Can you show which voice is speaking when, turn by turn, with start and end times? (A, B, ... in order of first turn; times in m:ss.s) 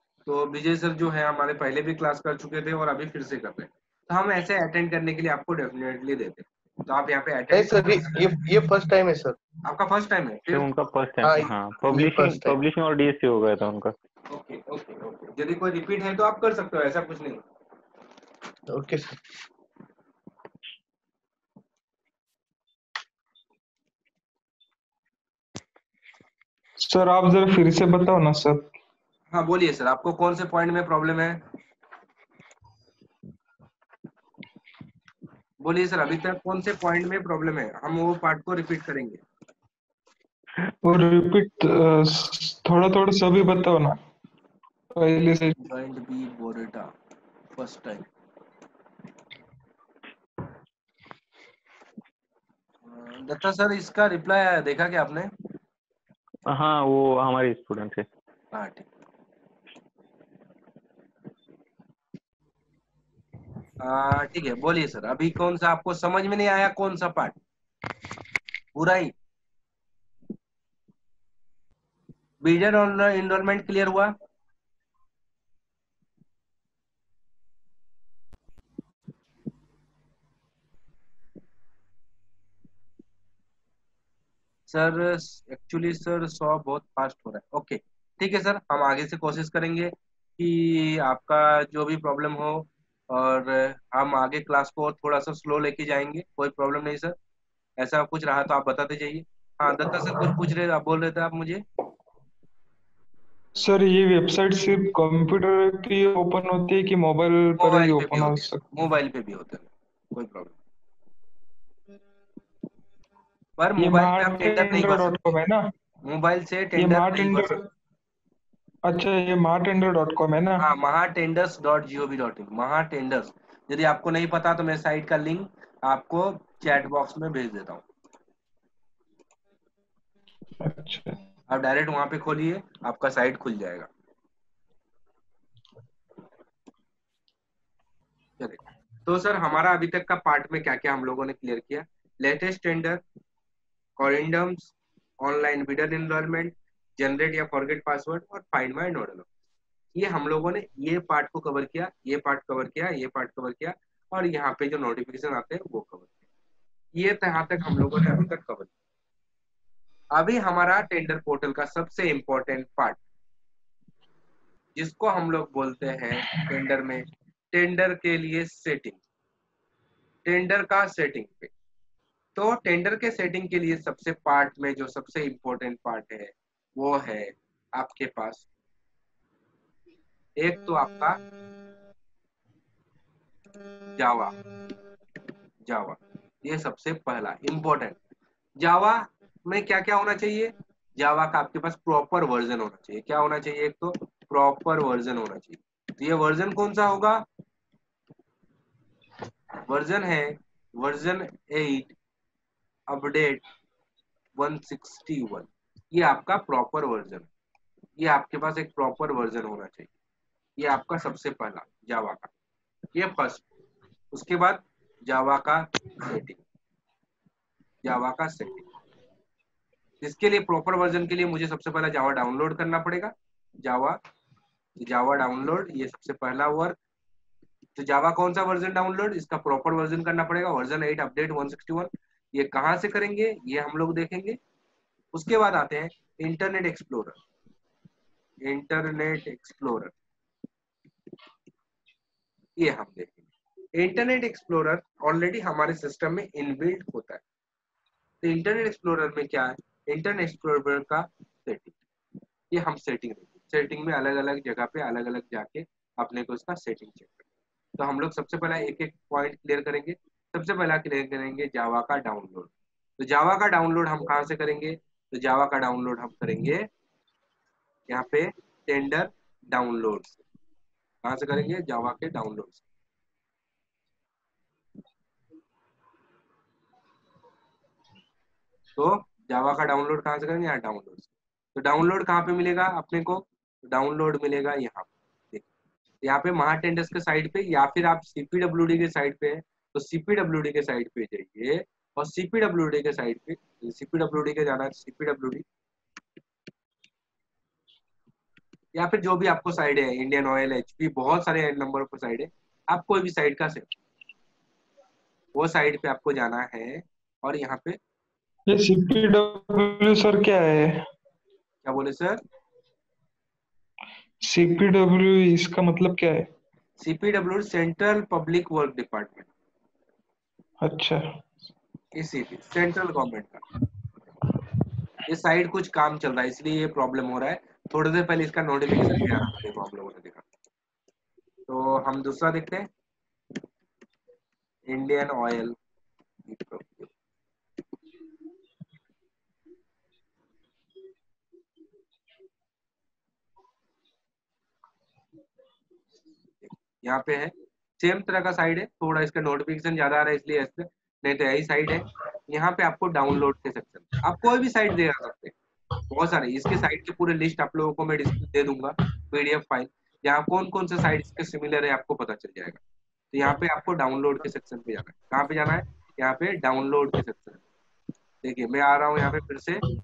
0:00.3-0:08.4 A
0:07.5-0:09.4 B
0:09.6-0:10.7 A
0:10.5-0:13.9 C
0:11.2-0:12.6 B
0:14.3-0:17.4 A
0:18.7-0:19.2 B
0:26.8-0:28.7 D
0:29.3-0:31.4 A
0:35.6-0:39.2 A
0:40.8-0:44.0 D
0:44.9-0:45.6 D
0:45.6-0:46.9 A
0:47.6-0:48.1 A
0:52.9-0:55.3 A
0:56.5-0:58.1 C
0:58.5-0:58.9 A
1:03.8-1:07.4 A
1:08.7-1:09.1 A
1:12.4-1:14.1 A
1:24.7-1:37.2 A
1:37.8-1:41.6 A
1:43.6-1:48.7 D
1:47.6-1:50.6 A
1:53.6-1:55.4 A
1:53.8-1:55.7 D
1:56.0-1:57.6 A
1:56.8-1:57.6 D
1:58.9-2:00.7 D
2:00.6-2:07.8 A
2:10.6-2:11.2 D
2:11.5-2:13.9 A
2:18.4-2:23.0 A
2:24.0-2:29.3 A
2:30.0-2:36.1 A
2:37.0-2:38.7 A
2:40.1-2:43.0 A
2:44.8-2:49.0 A
2:50.2-2:51.5 A
2:52.4-2:58.4 A
3:00.4-3:01.2 A
3:04.0-3:04.3 A
3:05.6-3:08.0 A
3:08.6-3:17.2 A
3:19.6-3:22.0 A
3:22.9-3:23.4 A
3:24.4-3:27.3 A
3:28.0-3:29.9 A
3:30.6-3:32.3 A
3:33.0-3:33.5 A
3:34.1-3:36.4 A
3:37.8-3:38.7 A
3:40.0-3:44.0 A
3:44.8-3:46.8 A
3:47.8-3:54.4 A
3:55.1-3:57.2 A
3:58.4-4:00.0 A
4:02.6-4:03.2 A
4:03.7-4:07.2 A
4:08.2-4:11.7 A
4:12.5-4:17.2 A
4:17.8-4:26.7 A
4:27.9-4:30.2 A
4:31.0-4:32.6 A
4:38.8-4:45.5 A
4:46.0-4:55.4 A
4:58.7-5:03.7 A
5:05.3-5:07.8 A
5:08.5-5:10.8 D
5:11.6-5:12.2 A
5:14.2-5:16.3 D
5:16.8-5:19.3 A
5:20.6-5:21.0 D
5:22.0-5:23.4 A
5:25.1-5:30.2 A
5:31.5-5:32.7 A
5:34.7-5:35.6 A
5:36.3-5:36.9 A
5:46.4-5:55.3 A
5:55.9-6:02.6 A
6:03.1-6:07.4 A
6:08.2-6:09.6 A